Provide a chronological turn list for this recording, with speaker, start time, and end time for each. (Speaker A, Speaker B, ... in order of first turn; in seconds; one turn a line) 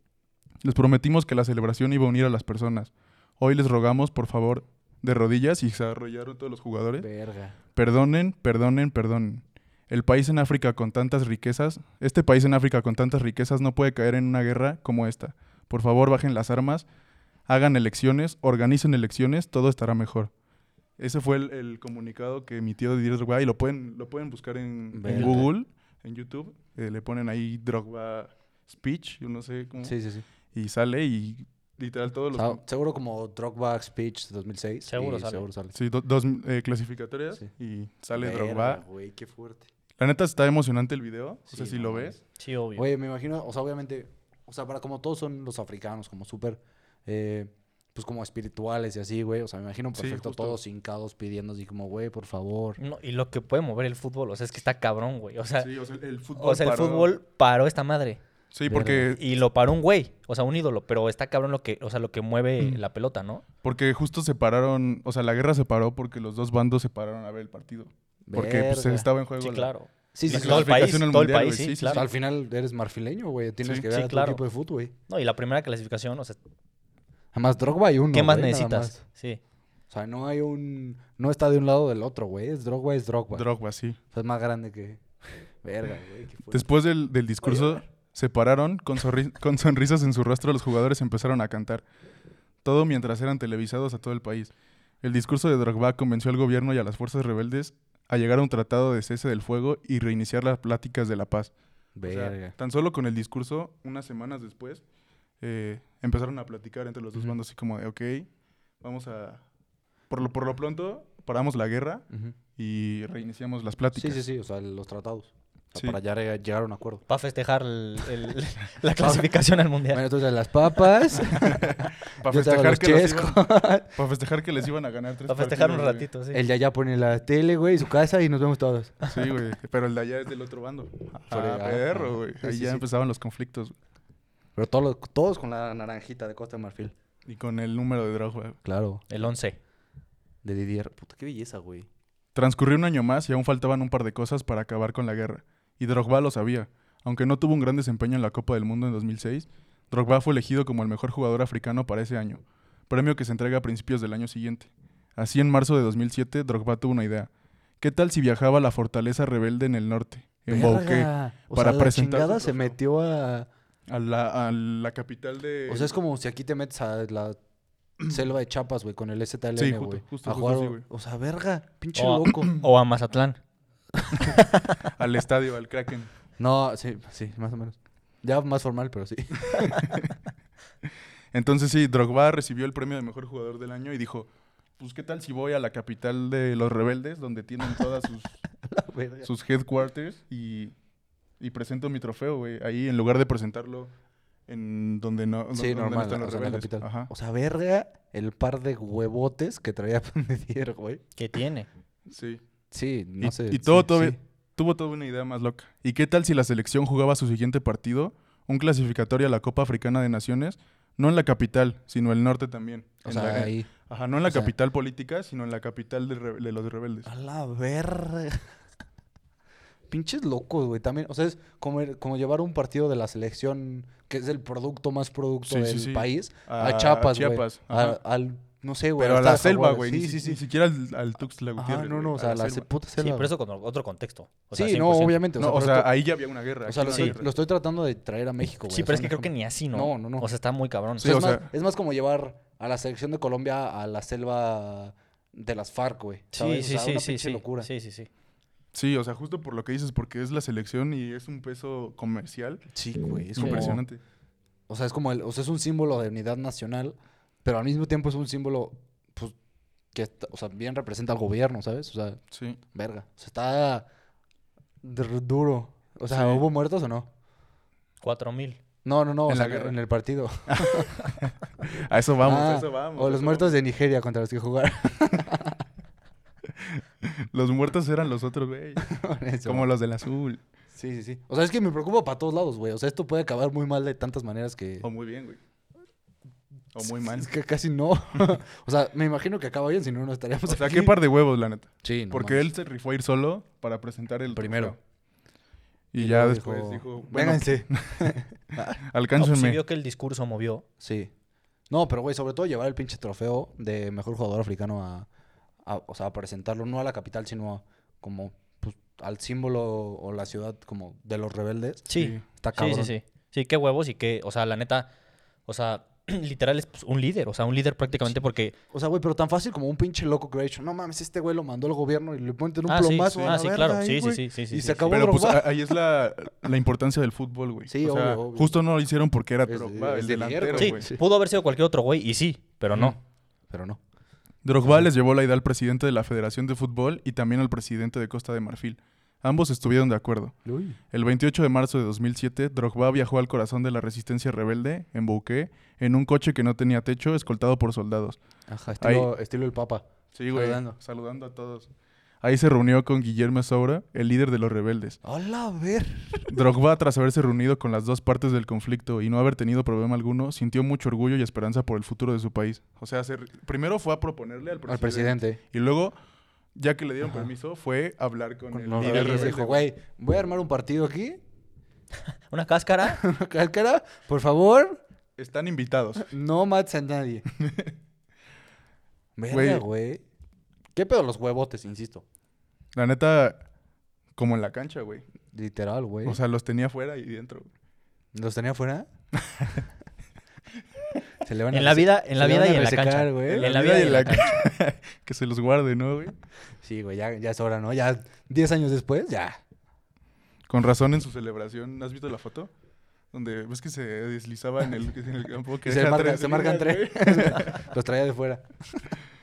Speaker A: 0.6-7.1
Speaker B: 7.0-7.6
Speaker A: 7.7-16.8
Speaker A: 17.5-20.3
Speaker A: 21.0-29.9
Speaker B: 24.9-25.5
Speaker C: 25.1-25.4
Speaker B: 29.8-30.2
Speaker A: 30.5-32.6
Speaker B: 32.3-35.7
Speaker C: 34.9-35.5
Speaker A: 35.7-38.8
Speaker B: 38.1-39.7
Speaker A: 40.0-42.2
Speaker B: 41.5-42.2
Speaker C: 42.4-42.9
Speaker B: 42.7-52.8
Speaker A: 50.0-50.6
Speaker C: 52.8-55.7
Speaker A: 55.6-57.1
Speaker C: 56.3-58.2
Speaker A: 58.5-59.2
Speaker B: 58.7-59.1
Speaker C: 59.1-63.4
Speaker A: 63.6-69.7
Speaker B: 68.2-69.1
Speaker C: 69.4-72.0
Speaker B: 70.1-70.8
Speaker A: 70.2-72.1
Speaker B: 71.9-74.9
Speaker C: 73.9-74.4
Speaker C: 75.1-76.4
Speaker B: 77.3-79.0
Speaker C: 78.1-79.4
Speaker B: 79.9-83.5
Speaker A: 83.3-84.0
Speaker B: 84.1-86.7
Speaker A: 86.5-91.8
Speaker B: 87.4-87.8
Speaker A: 92.6-101.5
Speaker B: 102.0-102.5
Speaker A: 102.0-104.8
Speaker A: 105.4-108.3
Speaker A: 108.8-109.4
Speaker A: 110.1-114.2
Speaker B: 113.9-117.0
Speaker C: 117.1-120.0
Speaker B: 119.0-119.3
Speaker B: 119.9-124.0
Speaker A: 121.3-126.1
Speaker C: 125.3-126.4
Speaker B: 126.3-129.0
Speaker A: 129.0-133.7
Speaker B: 131.3-132.8
Speaker B: 134.6-136.9
Speaker A: 137.2-138.6
Speaker B: 138.6-139.0
Speaker C: 139.1-139.6
Speaker B: 140.4-141.9
Speaker A: 142.3-162.8
Speaker B: 160.5-163.5
Speaker A: 163.9-165.9
Speaker B: 165.7-167.4
Speaker B: 168.0-172.5
Speaker A: 169.6-170.8
Speaker C: 171.9-173.4
Speaker C: 174.1-174.8
Speaker A: 174.9-176.1
Speaker B: 176.4-180.0
Speaker A: 179.8-180.1
Speaker A: 181.3-188.4
Speaker B: 188.6-189.3
Speaker A: 189.2-190.7
Speaker A: 191.4-193.9
Speaker A: 194.5-197.1
Speaker B: 195.5-201.0
Speaker C: 201.2-201.7
Speaker A: 202.1-202.4
Speaker B: 202.7-204.2
Speaker A: 203.2-217.1
Speaker B: 213.0-213.7
Speaker B: 214.2-214.5
Speaker B: 217.0-218.5
Speaker B: 219.9-230.4
Speaker A: 225.5-228.0
Speaker A: 229.0-232.7
Speaker B: 231.6-233.3
Speaker C: 233.0-235.2
Speaker B: 234.5-235.9
Speaker A: 235.4-237.3
Speaker B: 236.6-240.3
Speaker C: 238.7-241.1
Speaker B: 241.0-247.7
Speaker A: 241.0-241.5
Speaker C: 246.3-248.1
Speaker A: 248.7-252.7
Speaker B: 252.7-253.8
Speaker A: 253.3-254.0
Speaker B: 254.7-259.3
Speaker B: 259.9-262.2
Speaker A: 262.3-262.6
Speaker B: 262.7-263.9
Speaker B: 264.8-267.1
Speaker A: 266.1-266.4
Speaker C: 268.0-268.6
Speaker B: 268.8-270.9
Speaker A: 269.3-269.8
Speaker A: 270.5-273.6
Speaker B: 272.2-275.6
Speaker A: 276.6-280.4
Speaker B: 278.8-279.7
Speaker B: 280.7-284.9
Speaker A: 284.8-285.4
Speaker A: 286.7-287.3
Speaker B: 286.8-290.9
Speaker A: 290.4-294.8
Speaker B: 291.8-292.5
Speaker B: 294.3-294.8
Speaker A: 295.9-299.6
Speaker B: 296.0-298.8
Speaker C: 299.2-300.6
Speaker B: 300.8-301.1
Speaker B: 301.7-305.1
Speaker B: 305.6-312.9
Speaker C: 311.9-314.9
Speaker A: 311.9-312.2
Speaker C: 315.5-318.5
Speaker B: 318.7-325.7
Speaker C: 322.7-325.0
Speaker A: 323.1-323.4
Speaker A: 324.9-330.9
Speaker B: 327.7-328.6
Speaker B: 329.4-331.0
Speaker C: 330.6-332.9
Speaker B: 332.7-333.0
Speaker B: 333.5-333.8
Speaker A: 334.4-340.4
Speaker B: 340.4-340.8
Speaker A: 340.9-348.2
Speaker B: 348.5-350.8
Speaker A: 348.8-349.1
Speaker A: 350.1-351.7
Speaker A: 352.2-355.0
Speaker B: 355.0-356.4
Speaker A: 356.3-365.9
Speaker B: 364.7-365.4
Speaker A: 366.6-369.6
Speaker B: 368.5-371.2
Speaker C: 368.8-369.3
Speaker C: 372.3-373.0
Speaker B: 372.8-374.8
Speaker A: 375.2-376.1
Speaker B: 376.0-377.2
Speaker A: 377.4-377.7
Speaker B: 379.2-380.0
Speaker A: 379.3-379.6
Speaker B: 380.7-382.0
Speaker A: 382.7-383.4
Speaker A: 384.1-385.0
Speaker B: 385.3-386.2
Speaker A: 386.0-387.5
Speaker B: 388.1-388.9
Speaker A: 389.2-389.6
Speaker B: 391.2-393.9
Speaker C: 391.5-394.4
Speaker A: 393.2-396.1
Speaker B: 396.6-399.4
Speaker A: 400.5-402.5
Speaker A: 403.1-407.7
Speaker B: 405.6-408.9